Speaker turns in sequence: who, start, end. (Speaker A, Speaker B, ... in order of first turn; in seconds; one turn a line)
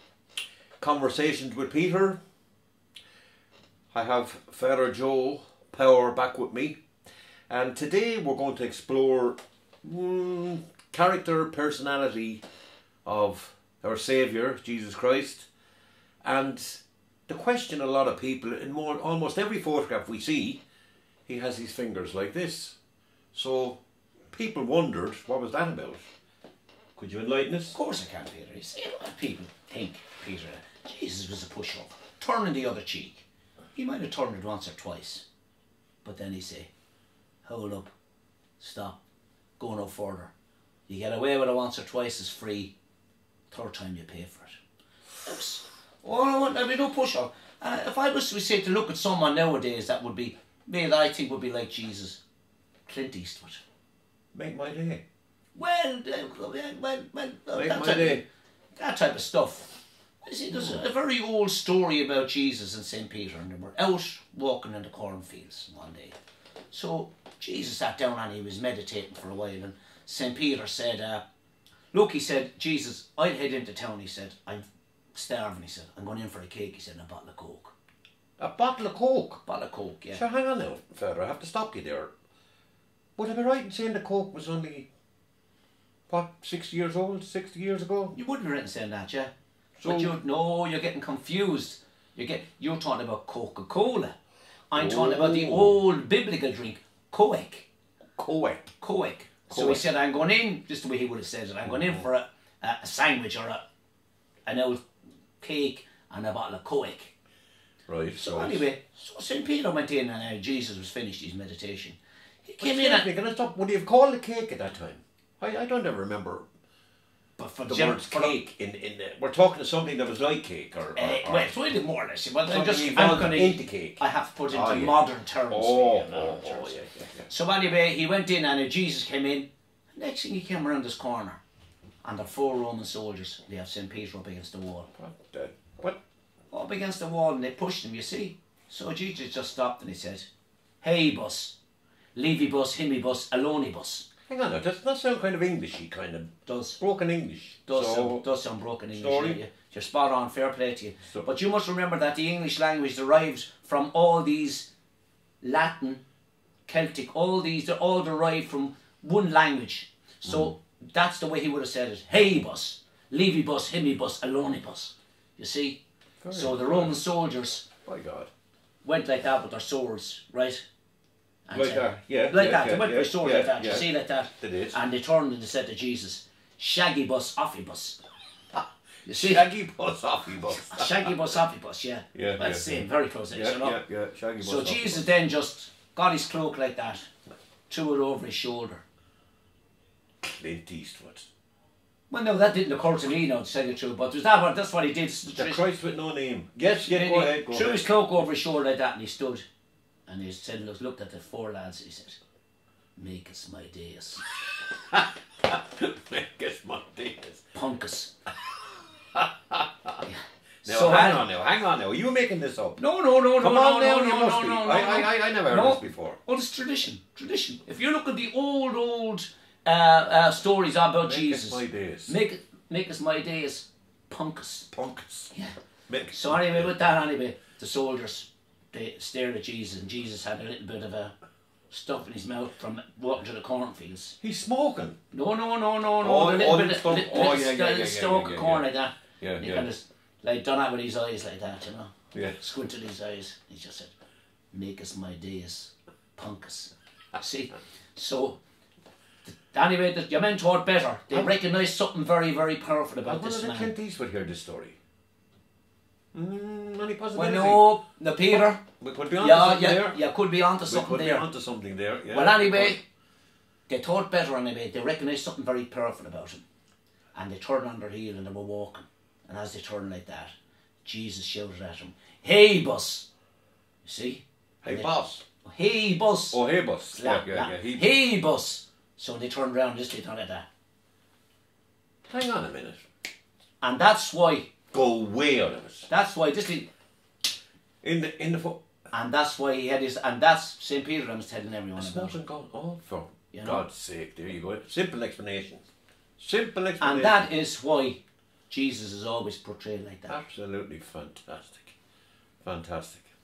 Speaker A: 0.8-2.2
Speaker A: 3.9-6.8
Speaker A: 7.5-12.4
Speaker A: 13.1-15.5
Speaker A: 16.2-20.6
Speaker A: 21.3-22.8
Speaker A: 23.3-26.1
Speaker A: 27.0-27.8
Speaker B: 27.7-35.2
Speaker B: 36.0-36.7
Speaker B: 37.4-37.9
Speaker B: 38.6-39.0
Speaker B: 39.6-40.3
Speaker B: 40.9-42.7
Speaker B: 43.5-44.6
Speaker B: 45.2-52.2
Speaker B: 52.9-53.6
Speaker A: 54.3-55.0
Speaker B: 55.6-58.2
Speaker A: 57.5-58.2
Speaker B: 58.8-66.2
Speaker B: 66.7-71.2
Speaker B: 71.9-77.7
Speaker A: 78.4-79.4
Speaker B: 79.5-80.2
Speaker A: 80.1-82.1
Speaker A: 83.2-84.9
Speaker A: 86.1-88.2
Speaker B: 88.1-89.3
Speaker A: 89.8-90.1
Speaker B: 89.8-94.2
Speaker B: 94.7-97.7
Speaker A: 94.8-95.8
Speaker A: 98.2-98.7
Speaker B: 98.8-103.6
Speaker A: 99.5-99.8
Speaker B: 104.5-104.8
Speaker B: 105.4-107.1
Speaker A: 107.9-108.6
Speaker B: 108.2-113.1
Speaker A: 112.6-116.5
Speaker B: 117.4-118.3
Speaker A: 117.7-121.5
Speaker B: 120.9-131.4
Speaker A: 122.5-127.3
Speaker B: 132.0-134.9
Speaker A: 135.0-136.0
Speaker B: 136.5-140.3
Speaker B: 140.8-141.6
Speaker B: 142.2-144.1
Speaker A: 144.3-148.2
Speaker B: 146.5-146.8
Speaker B: 147.7-154.7
Speaker A: 148.9-149.4
Speaker B: 155.4-156.0
Speaker B: 156.7-165.8
Speaker A: 160.3-160.5
Speaker A: 166.2-166.9
Speaker B: 166.3-167.7
Speaker A: 167.9-168.3
Speaker B: 168.8-170.6
Speaker B: 171.5-178.0
Speaker A: 171.5-173.9
Speaker A: 174.4-174.8
Speaker A: 178.6-181.1
Speaker B: 179.1-179.5
Speaker B: 180.4-183.8
Speaker A: 182.1-185.1
Speaker B: 184.4-187.1
Speaker B: 187.7-188.8
Speaker A: 190.2-191.3
Speaker B: 192.1-195.6
Speaker A: 195.3-197.8
Speaker B: 196.9-199.4
Speaker B: 200.1-202.2
Speaker B: 203.0-204.2
Speaker A: 204.7-207.5
Speaker B: 207.5-208.1
Speaker A: 209.1-210.1
Speaker B: 210.1-211.3
Speaker A: 210.7-212.8
Speaker B: 212.8-224.7
Speaker A: 213.4-216.2
Speaker A: 221.0-222.2
Speaker A: 224.7-225.3
Speaker A: 225.9-227.0
Speaker B: 226.1-231.1
Speaker B: 231.7-234.2
Speaker A: 234.2-235.0
Speaker B: 235.1-243.9
Speaker A: 236.0-238.7
Speaker A: 239.2-239.7
Speaker A: 242.1-242.4
Speaker B: 244.5-248.4
Speaker B: 249.3-253.7
Speaker A: 253.1-254.8
Speaker A: 256.1-257.7
Speaker B: 257.1-258.6
Speaker A: 258.3-260.0
Speaker B: 259.2-261.3
Speaker A: 260.7-262.8
Speaker B: 262.1-262.8
Speaker B: 263.7-266.4
Speaker B: 267.1-270.3
Speaker B: 270.8-273.1
Speaker B: 273.8-274.9
Speaker A: 274.6-275.2
Speaker B: 275.4-280.5
Speaker A: 276.3-277.9
Speaker A: 282.1-282.9
Speaker B: 283.6-284.5
Speaker A: 284.7-285.9
Speaker B: 285.9-286.7
Speaker A: 287.8-288.6
Speaker B: 288.9-292.2
Speaker A: 291.8-297.3
Speaker B: 293.3-293.6
Speaker B: 296.8-300.2
Speaker A: 300.1-301.8
Speaker A: 302.4-303.1